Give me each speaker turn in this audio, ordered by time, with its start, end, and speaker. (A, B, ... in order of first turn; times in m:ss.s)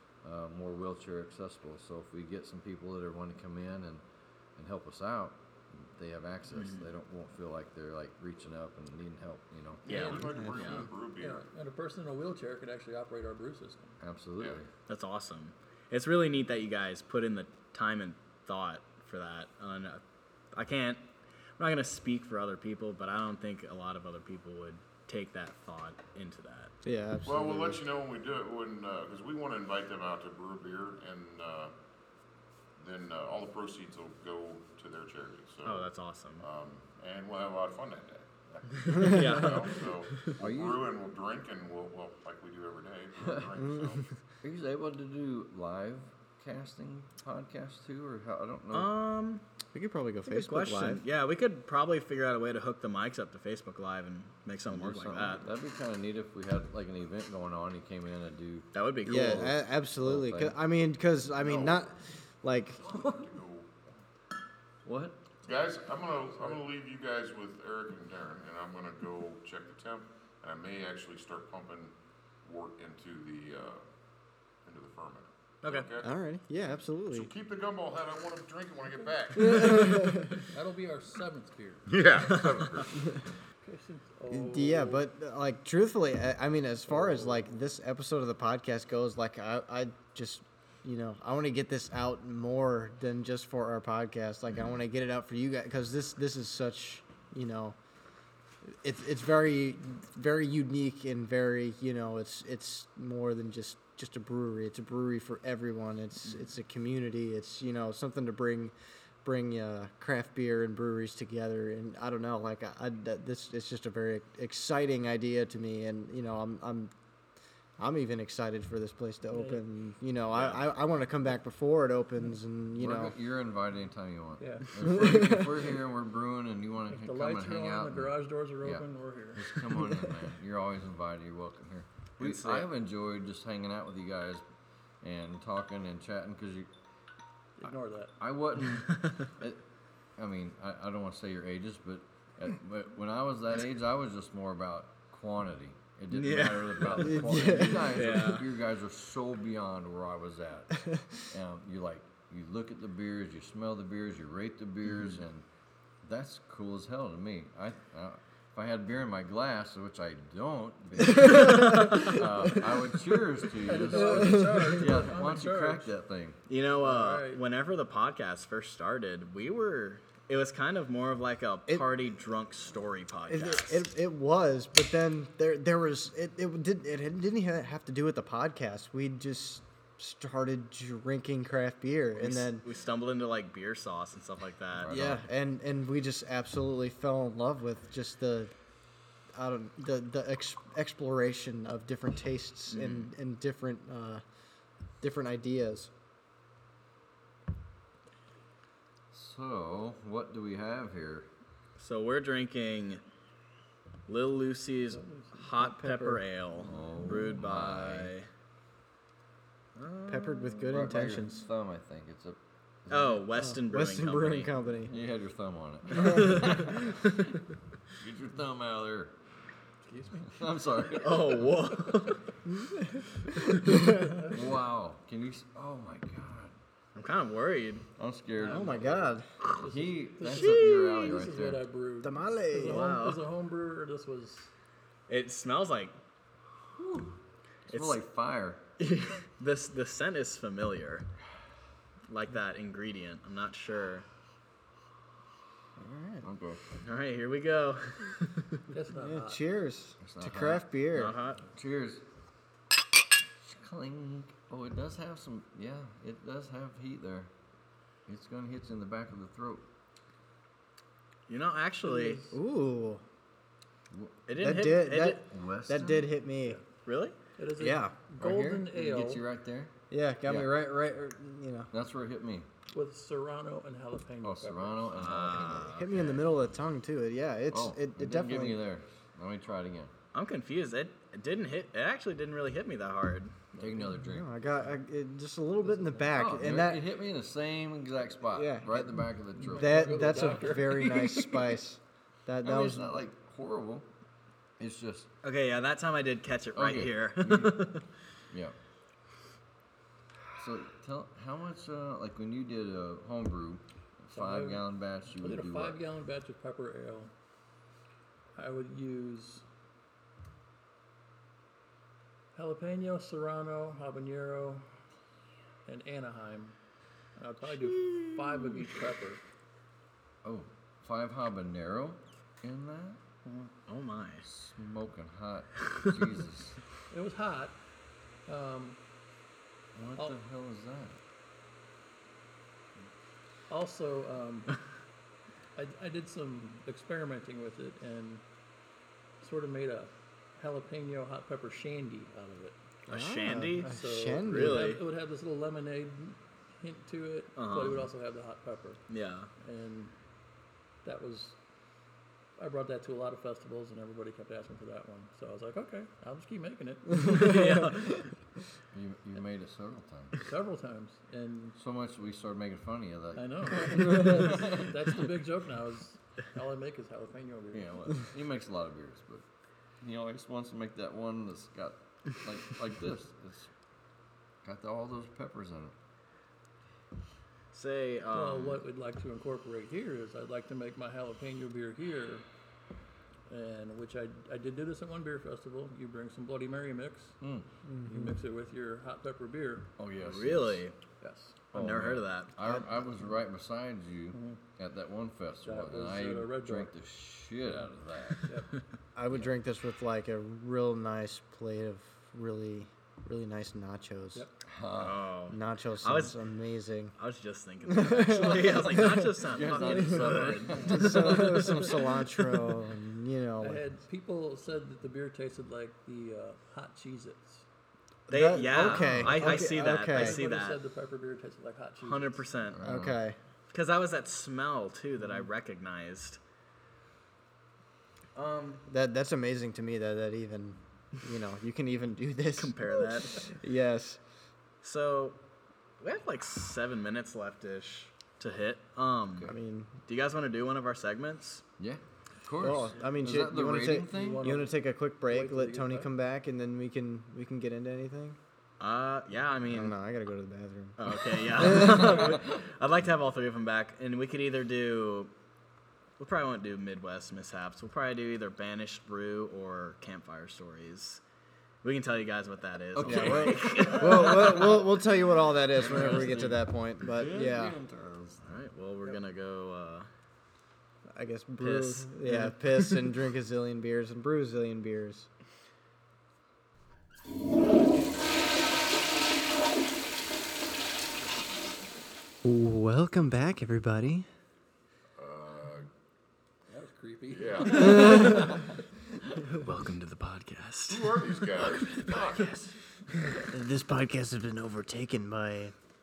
0:00.2-0:04.0 A
0:04.6-0:10.3 A
0:06.6-0:06.9 B
0:09.8-0:11.4 C
0:09.9-0:10.9 B
0:11.2-0:14.0 D
0:14.0-0:14.7 A
0:14.9-0:20.0 B
0:20.5-0:21.1 B
0:21.6-0:26.7 B
0:26.8-0:27.8 E
0:27.2-0:31.7 C
0:32.8-0:35.9 C
0:35.6-0:36.5 B
0:36.4-0:44.1 C
0:38.8-0:39.8 B
0:38.9-0:39.4 E
0:40.4-0:40.9 A
0:43.6-0:44.1 E
0:44.4-0:48.9 A
0:48.7-0:49.4 B
0:49.7-0:51.0 E
0:50.3-0:55.4 B
0:54.7-1:00.6 A
0:58.7-0:59.5 B
0:59.1-1:02.8 E
1:01.4-1:01.9 C
1:02.8-1:03.7 C
1:04.8-1:05.2 A
1:05.4-1:13.8 C
1:14.6-1:16.1 C
1:15.6-1:15.9 B
1:16.0-1:17.3 E
1:17.1-1:20.2 C
1:19.4-1:20.4 E
1:20.4-1:21.9 D
1:21.9-1:23.2 C
1:22.3-1:22.8 B
1:23.6-1:25.0 D
1:24.3-1:37.8 E
1:26.9-1:27.6 D
1:38.7-1:56.9 E
1:57.8-2:03.2 E
1:59.3-1:59.6 D
2:02.8-2:14.4 A
2:04.4-2:04.9 D
2:04.8-2:05.7 E
2:06.9-2:10.1 D
2:12.2-2:12.7 B
2:15.0-2:16.7 A
2:17.6-2:18.2 D
2:18.2-2:19.6 A
2:20.2-2:35.4 A
2:26.1-2:28.5 B
2:26.9-2:28.2 E
2:36.0-2:46.4 A
2:41.0-2:42.6 E
2:41.1-2:42.2 B
2:43.6-2:45.9 D
2:43.9-2:44.9 E
2:46.5-2:53.9 B
2:46.8-2:47.4 D
2:53.3-3:02.6 E
3:02.2-3:04.9 B
3:04.8-3:05.2 A
3:04.9-3:08.5 E
3:09.3-3:14.2 E
3:12.7-3:13.1 B
3:15.0-3:15.9 E
3:19.1-3:21.3 A
3:21.8-3:23.0 B
3:24.1-3:28.3 B
3:24.9-3:25.5 D
3:25.6-3:26.2 E
3:26.6-3:28.1 A
3:29.8-3:30.8 B
3:30.1-3:31.5 E
3:30.6-3:33.2 A
3:32.9-3:34.5 B
3:33.3-3:35.0 E
3:34.9-3:37.2 A
3:35.9-3:36.7 E
3:36.0-3:36.8 B
3:37.9-3:39.1 A
3:39.9-3:40.2 D
3:40.2-3:41.5 A
3:41.0-3:42.3 B
3:42.5-3:44.3 E
3:44.0-3:44.5 D
3:44.3-3:46.6 A
3:47.0-3:47.9 B
3:48.0-3:51.6 A
3:48.4-3:49.0 D
3:48.4-3:49.3 E
3:49.6-3:54.5 D
3:50.3-3:50.7 B
3:52.0-3:52.9 E
3:52.7-3:53.2 B
3:55.1-3:56.0 B
3:56.8-3:58.6 A
3:57.7-3:58.0 B
3:58.8-4:01.1 B
4:02.1-4:04.1 B
4:05.8-4:06.3 E
4:06.2-4:06.6 A
4:06.8-4:08.6 B
4:08.7-4:09.4 D
4:09.0-4:11.2 E
4:10.0-4:10.7 A
4:10.9-4:11.4 B
4:11.4-4:12.0 A
4:13.4-4:17.3 A
4:18.1-4:19.7 A
4:21.3-4:22.3 B
4:21.9-4:22.4 D
4:22.3-4:23.0 E
4:23.9-4:24.2 A
4:24.3-4:25.2 B
4:24.4-4:26.6 E
4:25.2-4:26.1 A
4:26.8-4:27.2 B
4:27.4-4:29.2 D
4:27.6-4:28.0 E
4:28.2-4:29.7 A
4:29.9-4:31.7 E
4:30.3-4:30.6 A
4:31.7-4:32.5 A
4:32.7-4:35.1 D
4:34.2-4:35.8 A
4:35.0-4:36.3 B
4:35.4-4:38.6 E
4:37.5-4:39.9 A
4:40.1-4:43.5 B
4:43.6-4:44.3 A
4:44.0-4:46.9 E
4:45.7-4:46.0 D
4:46.1-4:50.6 A
4:48.3-4:52.9 E
4:49.4-4:51.5 D
4:52.4-4:53.9 A
4:54.6-4:55.1 A
4:55.2-4:57.9 B
4:56.6-4:57.7 A
5:00.4-5:05.8 A
5:04.1-5:07.1 D
5:08.4-5:09.5 D
5:12.3-5:14.7 D
5:15.7-5:16.6 D
5:17.2-5:19.2 D
5:20.2-5:23.0 A
5:23.2-5:23.5 D
5:23.7-5:24.3 B
5:24.2-5:26.7 A
5:26.9-5:27.6 D
5:28.3-5:28.8 D
5:29.8-5:31.0 A
5:33.5-5:34.6 D
5:35.6-5:38.2 D
5:39.2-5:42.6 D
5:42.9-5:44.8 B
5:42.9-5:44.6 E
5:43.6-5:48.8 D
5:47.4-5:47.9 B
5:48.9-5:49.3 B
5:49.4-5:50.0 D
5:50.8-5:51.4 D
5:52.4-5:57.4 D
5:57.0-5:57.9 E
5:57.0-5:58.1 B
5:58.7-6:00.3 A
6:00.2-6:01.6 D
6:01.6-6:05.0 A
6:03.1-6:08.0 D
6:07.5-6:09.2 A
6:09.8-6:13.5 A
6:14.4-6:15.7 A
6:17.5-6:18.6 B
6:18.1-6:22.3 D
6:23.3-6:27.2 D
6:27.2-6:27.5 A
6:27.7-6:28.2 E
6:27.8-6:29.7 D
6:29.8-6:30.6 A
6:30.0-6:30.8 B
6:31.0-6:31.4 D
6:31.5-6:32.3 B
6:31.5-6:38.3 A
6:32.4-6:32.7 E
6:34.1-6:34.4 D
6:35.4-6:36.7 D
6:38.2-6:38.5 D
6:39.0-6:44.3 E
6:44.5-6:45.1 A
6:44.8-6:46.2 B
6:45.3-6:46.9 E
6:47.0-6:51.2 B
6:47.7-6:53.6 E
6:49.2-6:52.1 A
6:53.4-6:57.5 D
6:58.1-7:00.2 E
6:58.1-7:00.6 B
6:58.5-6:59.3 A
6:59.9-7:02.3 D
7:01.8-7:02.6 B
7:02.5-7:03.0 A
7:02.6-7:03.2 E
7:03.5-7:06.2 B
7:08.2-7:08.6 B
7:08.7-7:14.0 E
7:12.4-7:13.4 B
7:14.6-7:15.2 B
7:15.8-7:19.3 B
7:19.2-7:19.8 E
7:19.8-7:21.4 B
7:21.6-7:24.3 A
7:22.4-7:28.2 E
7:23.9-7:25.9 D
7:28.6-7:29.8 B
7:29.5-7:32.1 E
7:30.8-7:35.1 B
7:31.5-7:32.4 A
7:36.0-7:41.0 B
7:41.6-7:44.3 B
7:42.8-7:44.8 A
7:42.8-7:47.6 E
7:45.4-7:48.3 A
7:48.2-7:49.9 B
7:50.9-7:55.1 E
7:51.4-7:52.9 B
8:02.2-8:04.1 E
8:05.0-8:05.7 C
8:06.5-8:08.7 D
8:07.1-8:08.2 C
8:07.5-8:08.4 E
8:09.3-8:12.6 B
8:10.7-8:12.3 C
8:13.1-8:15.6 E